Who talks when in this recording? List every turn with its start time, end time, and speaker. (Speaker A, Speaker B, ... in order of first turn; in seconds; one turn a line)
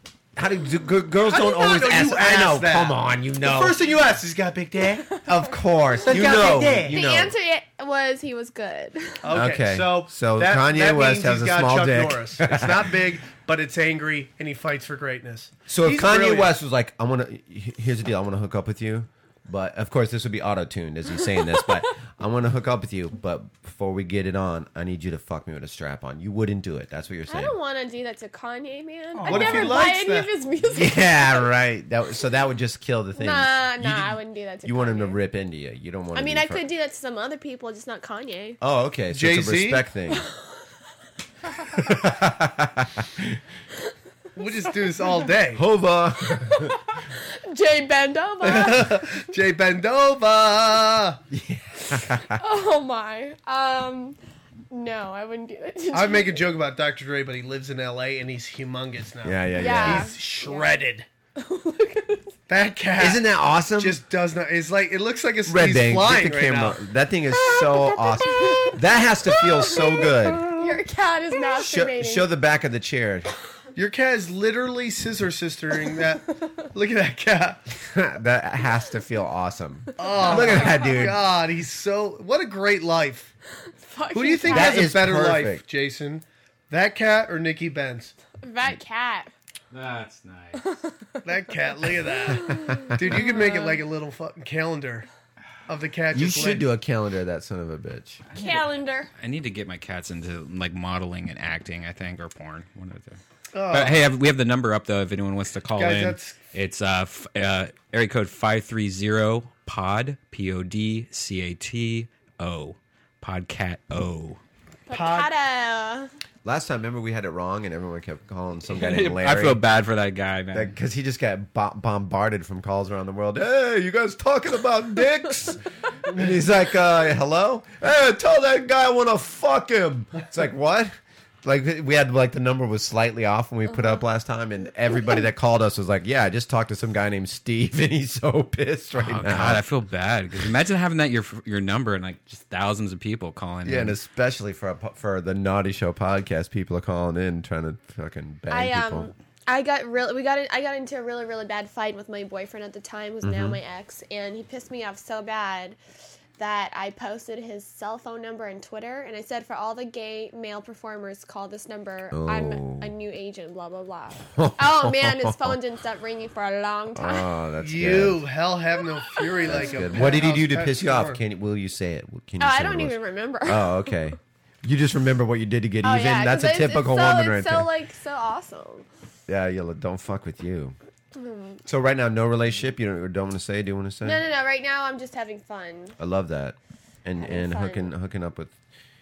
Speaker A: 0.4-3.8
Speaker B: 1.3-5.2
Speaker A: 5.2-7.3
Speaker B: 6.0-7.0
Speaker C: 6.2-9.2
Speaker B: 9.2-16.5
Speaker A: 9.3-13.0
Speaker A: 15.7-27.6
Speaker C: 27.3-31.5
Speaker A: 29.2-29.7
Speaker B: 29.2-30.3
Speaker A: 30.6-36.6
Speaker C: 33.2-35.2
Speaker C: 36.1-38.6
Speaker A: 38.6-40.2
Speaker B: 39.1-39.8
Speaker A: 41.7-43.4
Speaker B: 44.4-45.6
Speaker A: 45.5-46.8
Speaker C: 46.4-48.8
Speaker B: 48.4-51.2
Speaker A: 51.3-52.4
Speaker C: 52.4-54.2
Speaker C: 54.7-56.4
Speaker B: 55.9-61.1
Speaker A: 59.2-60.1
Speaker C: 59.6-60.7
Speaker C: 61.4-62.4
Speaker B: 62.5-63.3
Speaker A: 63.0-64.0
Speaker B: 63.8-66.8
Speaker A: 65.5-70.6
Speaker C: 67.3-72.3
Speaker A: 71.5-73.3
Speaker B: 73.8-77.6
Speaker A: 77.8-81.3
Speaker B: 80.0-83.3
Speaker C: 80.3-80.8
Speaker C: 83.9-84.8
Speaker B: 84.1-88.2
Speaker A: 84.5-85.6
Speaker C: 88.4-89.3
Speaker D: 89.7-90.6
Speaker C: 90.6-91.2
Speaker B: 91.2-95.1
Speaker C: 92.3-93.8
Speaker A: 92.5-92.9
Speaker B: 95.7-96.7
Speaker A: 96.1-98.2
Speaker D: 98.3-114.4
Speaker C: 98.3-99.1
Speaker B: 103.5-104.0
Speaker B: 105.8-106.4
Speaker C: 114.9-116.1
Speaker B: 114.9-115.3
Speaker A: 116.4-119.6
Speaker D: 118.7-120.8
Speaker A: 120.5-139.6
Speaker D: 138.9-144.0
Speaker A: 143.7-149.1
Speaker C: 148.5-155.8
Speaker A: 153.2-153.6
Speaker C: 156.4-167.3
Speaker A: 162.1-162.9
Speaker A: 164.3-165.6
Speaker A: 166.9-168.2
Speaker B: 167.6-171.2
Speaker C: 169.1-169.7
Speaker A: 169.4-177.7
Speaker C: 172.4-173.9
Speaker C: 175.8-178.9
Speaker A: 179.3-180.8
Speaker C: 181.2-181.6
Speaker A: 181.7-184.2
Speaker C: 184.0-186.0
Speaker A: 186.0-188.5
Speaker C: 187.2-187.9